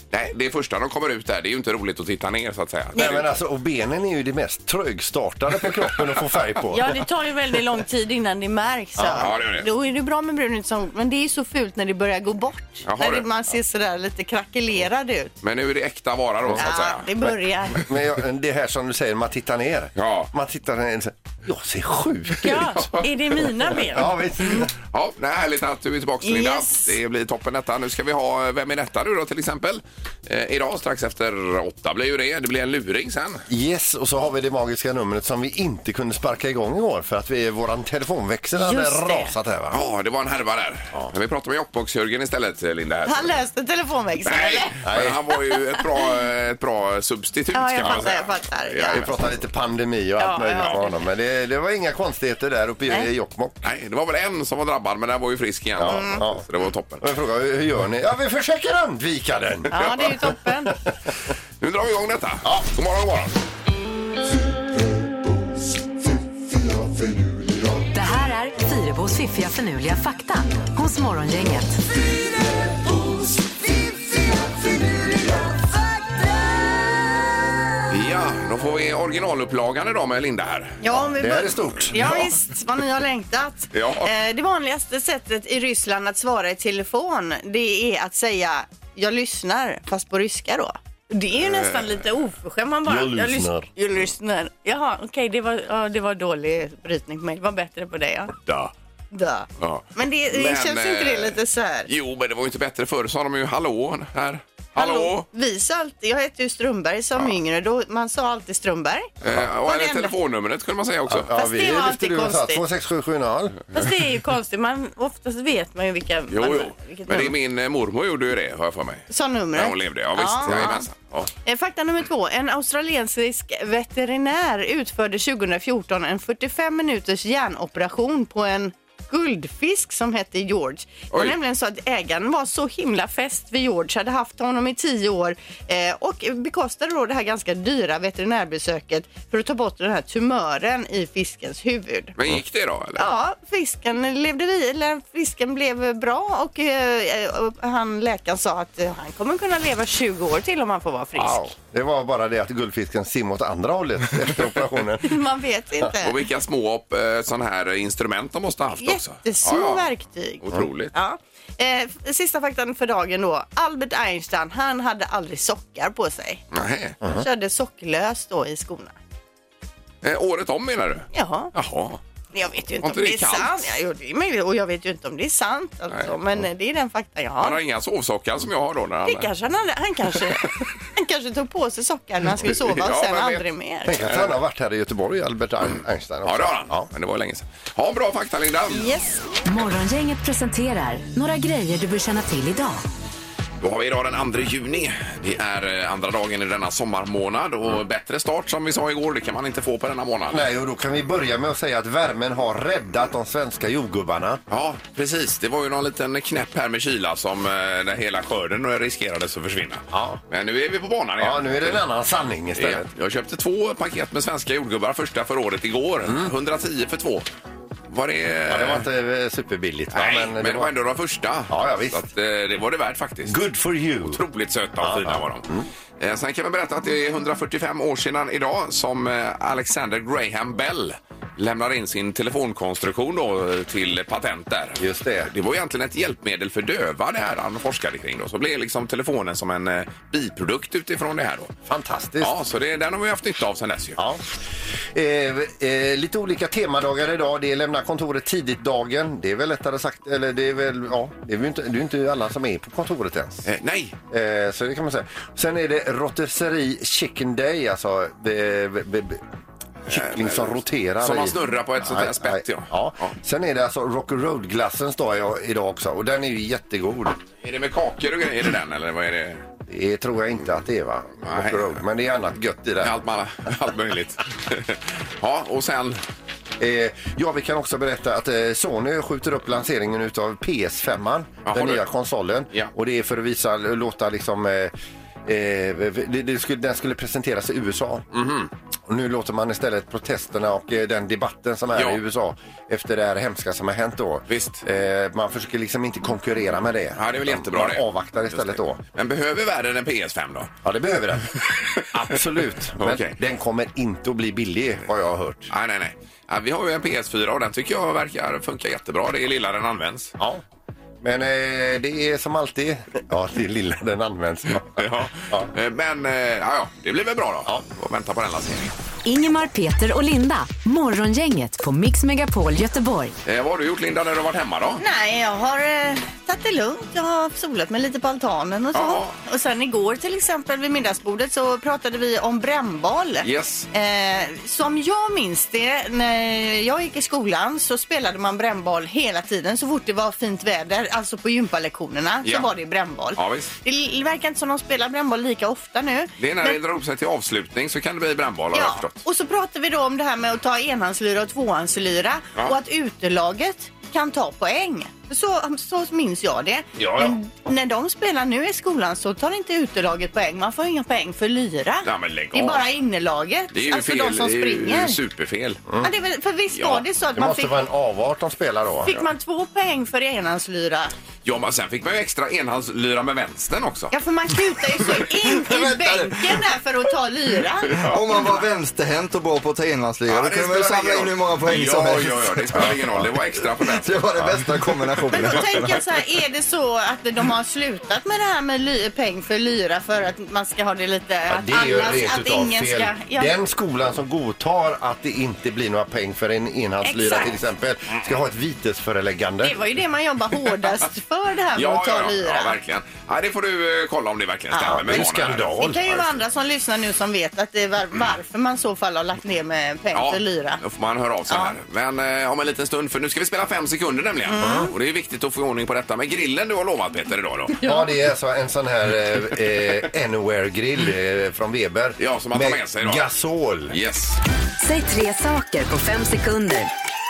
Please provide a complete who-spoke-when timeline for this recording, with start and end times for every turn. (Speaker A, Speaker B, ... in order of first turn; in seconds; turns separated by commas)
Speaker A: 0.1-3.3, Speaker B: 3.0-7.0, Speaker C: 6.7-15.3, Speaker A: 9.1-9.6, Speaker A: 12.8-13.2, Speaker A: 15.4-17.1, Speaker C: 16.6-17.8, Speaker B: 17.8-22.9, Speaker A: 20.0-20.3, Speaker C: 22.4-24.7, Speaker B: 23.7-24.7, Speaker A: 24.9-33.4, Speaker C: 26.2-26.9, Speaker B: 33.5-39.8, Speaker C: 38.6-39.3, Speaker A: 39.7-43.3, Speaker C: 43.0-44.8, Speaker A: 44.2-49.2, Speaker B: 44.8-45.2, Speaker C: 47.5-49.1, Speaker B: 48.9-53.6, Speaker C: 50.2-50.9, Speaker A: 53.6-57.0, Speaker B: 55.8-56.5, Speaker C: 55.9-56.2, Speaker B: 57.0-60.1, Speaker C: 59.7-60.8, Speaker A: 61.6-63.3, Speaker D: 67.9-71.8, Speaker A: 77.9-80.8, Speaker C: 80.8-98.3, Speaker B: 80.9-82.4, Speaker A: 83.7-84.1, Speaker A: 91.4-92.0, Speaker B: 92.8-93.7, Speaker A: 98.4-98.7, Speaker C: 99.1-101.9, Speaker A: 99.6-105.2, Speaker C: 104.8-109.1, Speaker A: 109.2-111.3, Speaker C: 109.6-110.1, Speaker B: 111.1-113.6, Speaker C: 111.3-112.6, Speaker C: 113.7-117.3, Speaker A: 116.3-121.3, Speaker C: 119.1-120.9, Speaker C: 121.4-142.2, Speaker A: 142.2-143.1, Speaker C: 143.0-151.4, Speaker B: 151.2-155.2, Speaker C: 155.1-156.1, Speaker A: 156.0-159.9, Speaker C: 158.8-166.4, Speaker A: 160.4-160.9, Speaker A: 166.5-166.9, Speaker C: 167.1-168.9, Speaker A: 170.0-172.0, Speaker C: 171.1-171.5, Speaker C: 172.3-177.6, Speaker A: 172.8-173.6, Speaker A: 177.4-179.3, Speaker C: 179.1-184.0, Speaker A: 182.4-183.4, Speaker B: 183.9-186.8, Speaker A: 184.0-184.3, Speaker A: 186.2-188.8, Speaker C: 188.7-189.2, Speaker D: 189.4-192.8, Speaker A: 193.6-200.4, Speaker B: 200.3-204.4, Speaker A: 204.5-211.8, Speaker B: 209.9-210.2, Speaker B: 211.2-212.8, Speaker A: 212.6-217.3, Speaker B: 216.1-216.3, Speaker A: 217.9-218.8, Speaker B: 218.5-220.7, Speaker A: 219.9-223.3, Speaker B: 221.5-222.0, Speaker B: 223.3-224.2, Speaker A: 224.0-225.4, Speaker B: 224.8-225.7, Speaker A: 226.0-241.5, Speaker B: 234.8-235.3, Speaker B: 241.7-242.3, Speaker A: 242.2-244.0, Speaker B: 244.0-244.4, Speaker B: 244.9-253.5, Speaker A: 253.4-253.9, Speaker B: 254.1-259.2, Speaker B: 259.9-267.2, Speaker A: 259.9-263.1, Speaker A: 267.4-269.4, Speaker B: 269.7-272.9, Speaker A: 271.2-271.8, Speaker A: 272.8-276.0, Speaker B: 276.6-284.7, Speaker A: 281.4-281.8, Speaker B: 285.2-298.8, Speaker A: 288.1-288.5, Speaker A: 291.7-292.0, Speaker A: 294.3-294.6, Speaker A: 296.9-300.5, Speaker B: 300.6-301.3, Speaker B: 301.9-305.5, Speaker A: 302.8-303.1, Speaker A: 305.5-310.1, Speaker B: 311.0-315.5, Speaker A: 314.8-318.7, Speaker D: 319.0-323.1, Speaker A: 323.2-324.8, Speaker C: 324.8-346.6, Speaker A: 328.7-329.1, Speaker A: 333.2-333.7, Speaker A: 342.2-342.5, Speaker A: 343.1-343.5, Speaker A: 346.2-349.0, Speaker C: 348.5-365.0, Speaker A: 356.8-357.2, Speaker A: 361.8-362.6, Speaker A: 363.5-365.6, Speaker C: 365.8-367.5, Speaker A: 366.5-366.8, Speaker B: 367.1-369.0, Speaker C: 368.9-370.9, Speaker A: 371.2-373.9, Speaker C: 373.9-377.8, Speaker E: 375.5-376.2, Speaker A: 377.7-378.0, Speaker E: 377.8-382.7, Speaker A: 380.1-383.9, Speaker B: 382.7-383.1, Speaker E: 383.7-385.8, Speaker C: 385.1-393.3, Speaker B: 391.3-399.6, Speaker C: 396.8-397.3, Speaker C: 399.4-402.6, Speaker A: 401.6-405.5, Speaker C: 404.5-404.8, Speaker B: 404.5-405.9, Speaker C: 405.6-410.6, Speaker A: 409.9-417.5, Speaker C: 411.3-411.5, Speaker C: 414.3-414.7, Speaker C: 417.6-417.9, Speaker B: 417.6-423.8, Speaker A: 422.0-423.1, Speaker A: 423.7-424.2, Speaker D: 424.6-426.7